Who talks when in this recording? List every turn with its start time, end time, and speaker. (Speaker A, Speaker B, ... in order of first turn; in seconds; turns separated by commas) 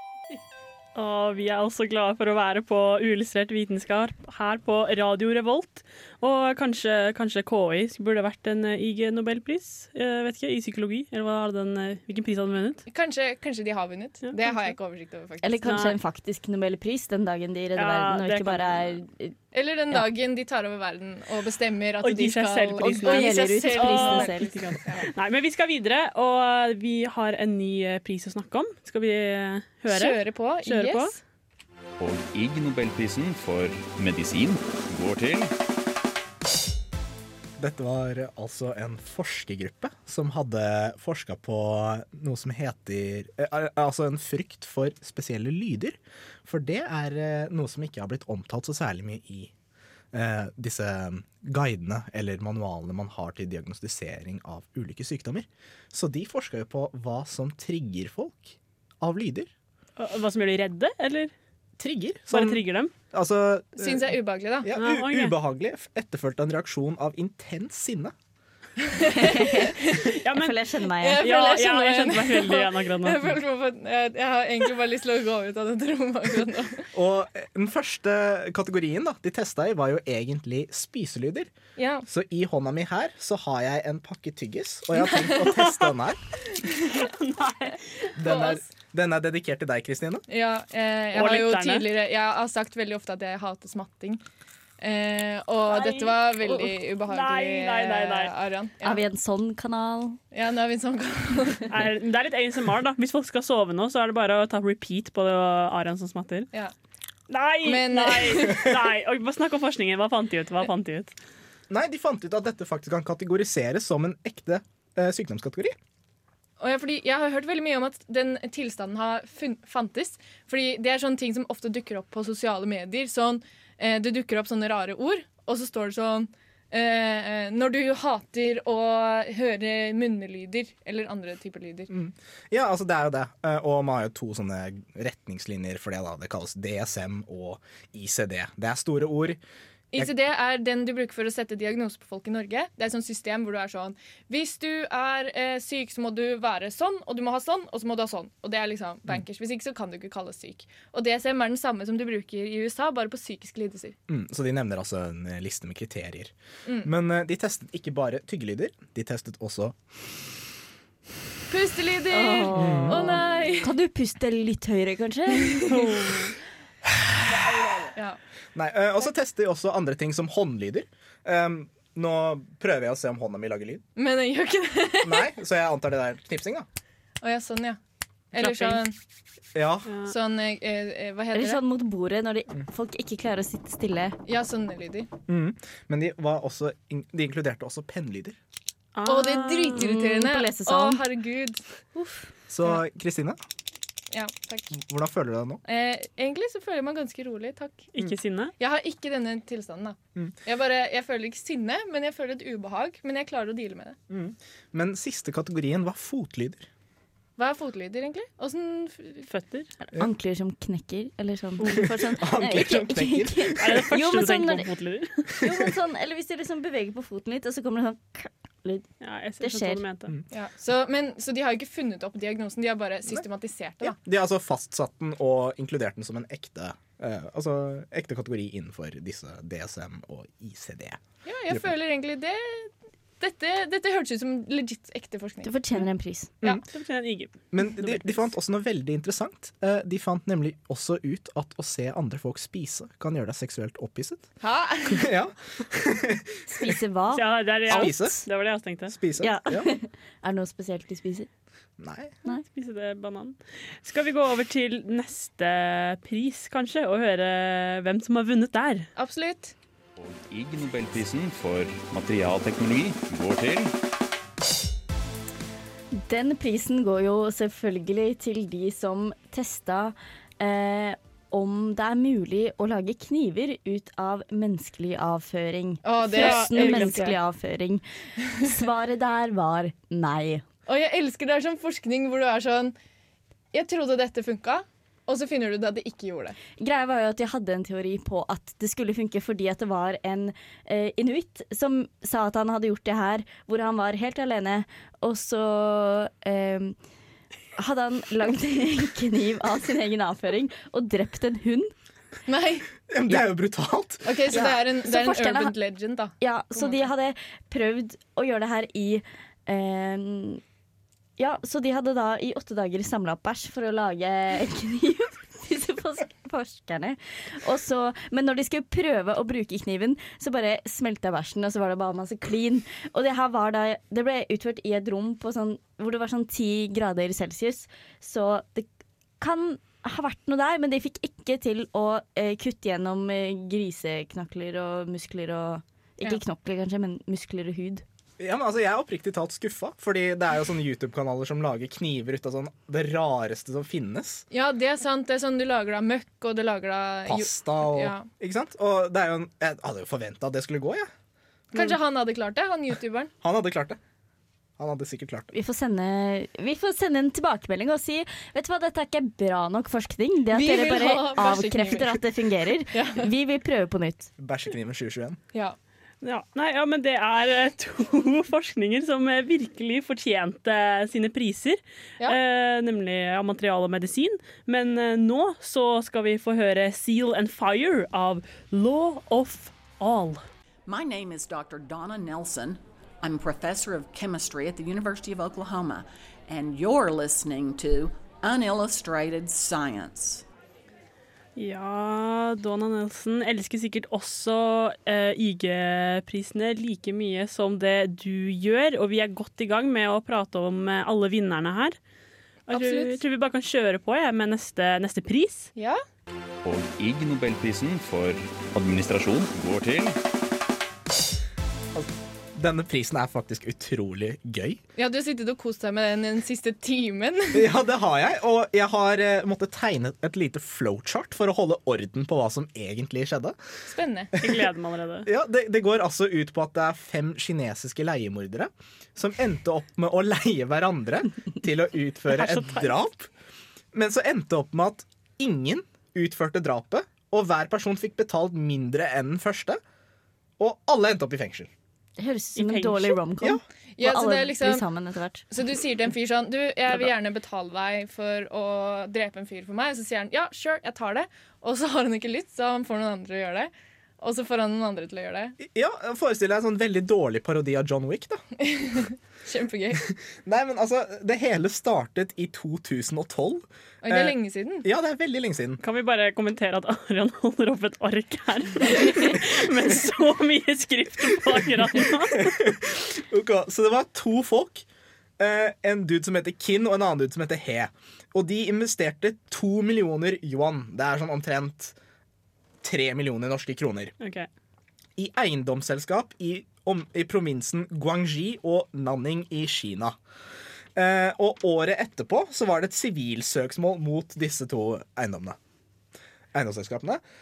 Speaker A: 0.9-12.8, Speaker B: 12.9-15.8, Speaker A: 14.2-14.7, Speaker C: 15.4-19.4, Speaker A: 15.6-16.0, Speaker A: 17.8-19.0, Speaker B: 19.5-25.1, Speaker A: 22.0-31.2, Speaker C: 22.9-24.5, Speaker B: 29.9-31.2, Speaker D: 32.0-35.5, Speaker E: 37.6-49.5, Speaker E: 50.1-59.5, Speaker A: 60.0-61.3, Speaker E: 61.8-64.1, Speaker A: 62.3-62.9, Speaker B: 63.8-64.7, Speaker E: 64.6-68.1, Speaker A: 64.7-65.4, Speaker B: 68.9-70.1, Speaker C: 69.1-69.7, Speaker A: 70.2-70.6, Speaker C: 70.3-71.2, Speaker B: 71.0-76.9, Speaker A: 71.2-73.4, Speaker E: 76.9-86.2, Speaker B: 81.8-82.0, Speaker B: 85.0-85.6, Speaker A: 86.8-88.1, Speaker E: 88.2-90.2, Speaker B: 88.2-88.7, Speaker B: 90.3-94.2, Speaker A: 91.1-91.9, Speaker B: 94.8-99.0, Speaker A: 95.7-98.3, Speaker C: 98.8-100.2, Speaker B: 100.3-101.7, Speaker A: 101.7-106.5, Speaker A: 107.3-111.2, Speaker B: 107.6-108.6, Speaker E: 111.7-115.8, Speaker B: 116.6-131.9, Speaker E: 131.9-139.4, Speaker B: 139.9-153.9, Speaker E: 154.1-159.8, Speaker B: 156.7-156.9, Speaker B: 161.5-163.7, Speaker C: 162.1-165.6, Speaker E: 162.5-163.2, Speaker B: 165.4-166.2, Speaker A: 165.7-166.3, Speaker E: 168.6-173.8, Speaker B: 174.0-175.3, Speaker E: 175.0-176.7, Speaker B: 177.2-177.8, Speaker B: 178.3-178.9, Speaker A: 178.3-178.8, Speaker E: 179.6-180.0, Speaker A: 179.9-180.1, Speaker B: 180.1-181.6, Speaker C: 181.3-184.2, Speaker B: 184.3-185.1, Speaker E: 185.3-188.4, Speaker A: 188.9-189.9, Speaker B: 189.1-191.6, Speaker C: 189.8-191.0, Speaker C: 192.0-192.3, Speaker E: 192.5-193.4, Speaker B: 194.1-194.7, Speaker E: 194.7-195.6, Speaker B: 195.7-197.9, Speaker A: 197.9-198.5, Speaker B: 198.6-204.0, Speaker E: 204.1-206.7, Speaker B: 207.4-209.3, Speaker A: 209.3-209.7, Speaker C: 209.8-214.7, Speaker E: 211.7-213.7, Speaker A: 213.6-215.3, Speaker C: 215.4-219.8, Speaker A: 219.0-220.1, Speaker B: 220.3-224.0, Speaker E: 223.8-231.7, Speaker B: 231.2-235.5, Speaker C: 235.4-236.3, Speaker A: 236.7-238.2, Speaker E: 237.5-244.3, Speaker B: 244.4-245.1, Speaker E: 244.9-246.7, Speaker C: 246.5-248.2, Speaker A: 247.1-248.9, Speaker E: 247.7-248.2, Speaker E: 248.9-249.7, Speaker C: 249.2-251.3, Speaker E: 251.8-252.2, Speaker A: 252.4-258.9, Speaker B: 259.0-259.6, Speaker D: 260.0-263.7, Speaker C: 265.9-277.9, Speaker B: 275.8-277.1, Speaker A: 276.1-277.2, Speaker C: 278.4-280.5, Speaker B: 280.7-282.8, Speaker B: 283.5-286.4, Speaker C: 286.5-296.8, Speaker C: 297.6-301.7, Speaker B: 302.3-302.7, Speaker E: 302.9-304.4, Speaker B: 304.0-306.8, Speaker C: 304.3-305.5, Speaker C: 306.2-310.4, Speaker C: 311.2-328.7, Speaker C: 329.2-337.8, Speaker E: 338.2-344.3, Speaker B: 344.3-348.1, Speaker E: 347.1-350.9, Speaker B: 351.5-353.1, Speaker E: 353.2-353.8, Speaker E: 354.6-355.3, Speaker C: 355.3-364.1, Speaker B: 360.3-362.0, Speaker B: 362.7-363.1, Speaker E: 364.2-365.2, Speaker A: 366.0-380.2, Speaker F: 380.7-390.2, Speaker A: 391.4-401.8, Speaker B: 402.5-403.0, Speaker A: 402.5-405.5, Speaker D: 406.4-409.9, Speaker E: 411.8-414.6, Speaker B: 414.8-417.5, Speaker E: 417.3-423.4, Speaker B: 423.7-424.1, Speaker A: 424.2-425.1, Speaker E: 425.1-433.1, Speaker A: 432.1-432.7, Speaker E: 433.7-439.6, Speaker E: 440.4-441.5, Speaker C: 442.0-445.2, Speaker A: 442.4-443.0, Speaker B: 443.8-444.7, Speaker B: 445.3-455.4, Speaker E: 455.4-458.2, Speaker B: 458.4-459.8, Speaker E: 460.2-465.6, Speaker B: 463.8-464.6, Speaker A: 465.6-472.3, Speaker E: 472.2-474.6, Speaker E: 475.2-481.8, Speaker E: 482.6-483.9, Speaker A: 484.0-484.3, Speaker E: 485.0-490.0, Speaker E: 490.8-495.4, Speaker E: 496.3-497.0